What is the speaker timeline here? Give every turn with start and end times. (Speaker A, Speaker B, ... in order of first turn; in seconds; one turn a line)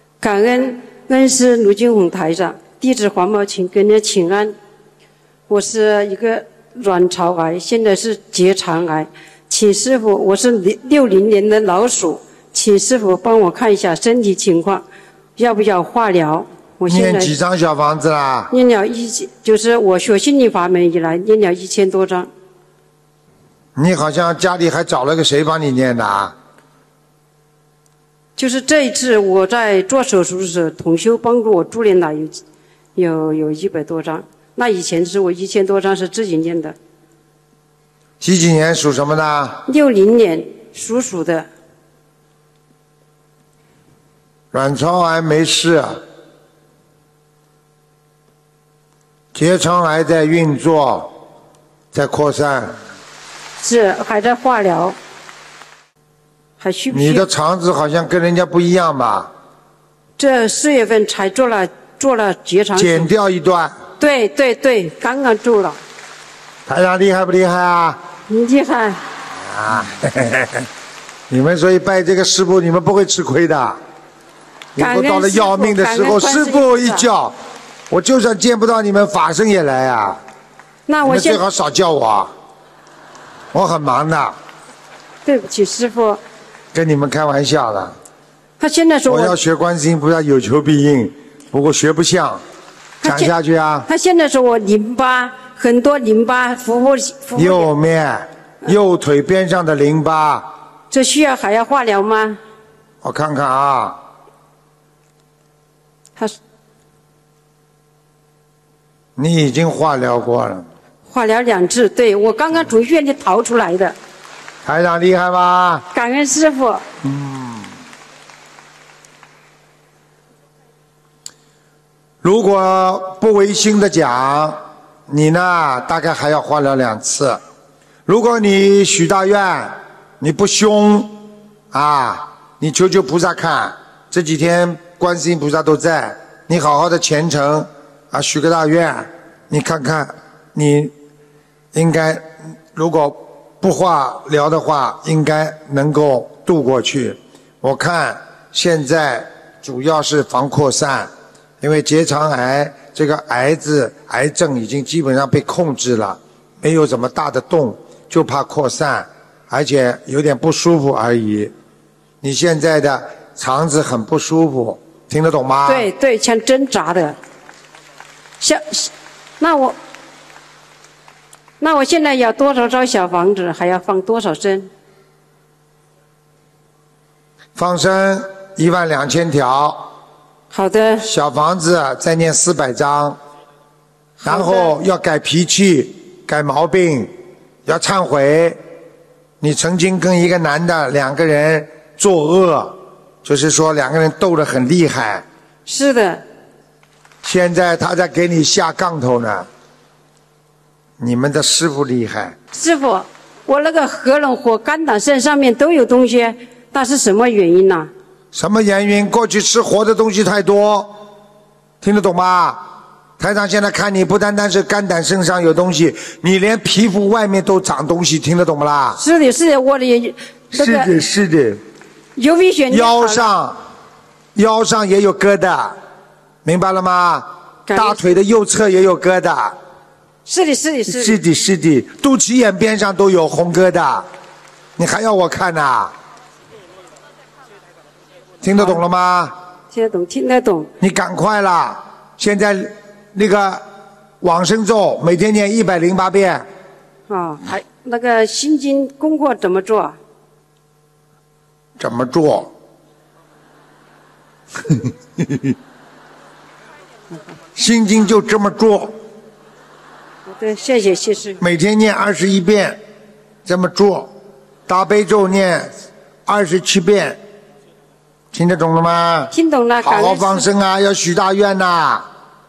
Speaker A: 0.2-4.5
Speaker A: 5.5-14.8
Speaker A: 15.4-17.3
Speaker B: 16.9-18.5
Speaker A: 18.5-22.3
Speaker B: 23.8-26.3
Speaker A: 28.4-32.4
Speaker A: 33.0-36.8
Speaker B: 38.2-39.6
Speaker A: 39.7-41.5
Speaker B: 44.5-46.0
Speaker B: 49.3-51.1
Speaker B: 51.9-52.8
Speaker A: 53.6-55.0
Speaker A: 56.6-57.3
Speaker B: 56.9-59.3
Speaker A: 60.2-63.1
Speaker B: 62.8-63.8
Speaker A: 64.0-65.8
Speaker B: 66.7-68.0
Speaker A: 68.3-69.0
Speaker B: 69.4-70.7
Speaker B: 71.3-73.8
Speaker B: 74.8-77.3
Speaker A: 74.8-77.0
Speaker B: 77.9-80.2
Speaker A: 80.9-81.4
Speaker B: 81.0-82.3
Speaker B: 83.5-84.3
Speaker A: 85.2-86.2
Speaker B: 86.7-88.0
Speaker A: 88.6-89.4
Speaker B: 89.1-92.4
Speaker A: 93.0-93.3
Speaker B: 93.0-93.9
Speaker A: 93.9-97.7
Speaker B: 97.4-100.5
Speaker A: 100.9-102.4
Speaker B: 103.0-104.0
Speaker B: 109.2-110.7
Speaker A: 111.1-114.0
Speaker B: 114.6-115.8
Speaker A: 115.9-116.8
Speaker B: 117.0-117.7
Speaker B: 122.2-127.4
Speaker B: 128.1-140.9
Speaker B: 141.7-151.1
Speaker B: 151.6-161.5
Speaker B: 162.2-165.9
Speaker A: 165.7-167.2
Speaker A: 168.4-169.8
Speaker A: 171.6-174.7
Speaker B: 177.6-179.9
Speaker A: 180.5-181.1
Speaker B: 181.1-183.2
Speaker A: 184.2-184.7
Speaker B: 184.2-187.1
Speaker B: 187.7-188.6
Speaker B: 189.4-195.2
Speaker A: 195.7-196.2
Speaker B: 197.2-199.5
Speaker B: 201.0-202.3
Speaker A: 202.5-207.9
Speaker B: 208.3-211.0
Speaker B: 211.8-212.6
Speaker B: 213.2-219.0
Speaker A: 218.9-220.9
Speaker B: 220.5-221.6
Speaker A: 222.2-223.3
Speaker B: 222.7-223.6
Speaker B: 224.3-225.8
Speaker B: 226.4-229.6
Speaker A: 227.7-228.1
Speaker A: 230.3-231.2
Speaker B: 230.9-234.1
Speaker B: 234.8-235.9
Speaker B: 238.4-239.3
Speaker A: 239.7-240.7
Speaker B: 240.8-243.6
Speaker B: 244.2-246.4
Speaker A: 247.1-250.0
Speaker B: 251.8-252.5
Speaker B: 254.7-255.4
Speaker B: 257.6-259.0
Speaker A: 260.3-261.4
Speaker B: 261.4-262.8
Speaker B: 263.4-264.1
Speaker B: 264.7-265.7
Speaker B: 266.3-267.2
Speaker B: 268.3-272.1
Speaker A: 269.3-270.5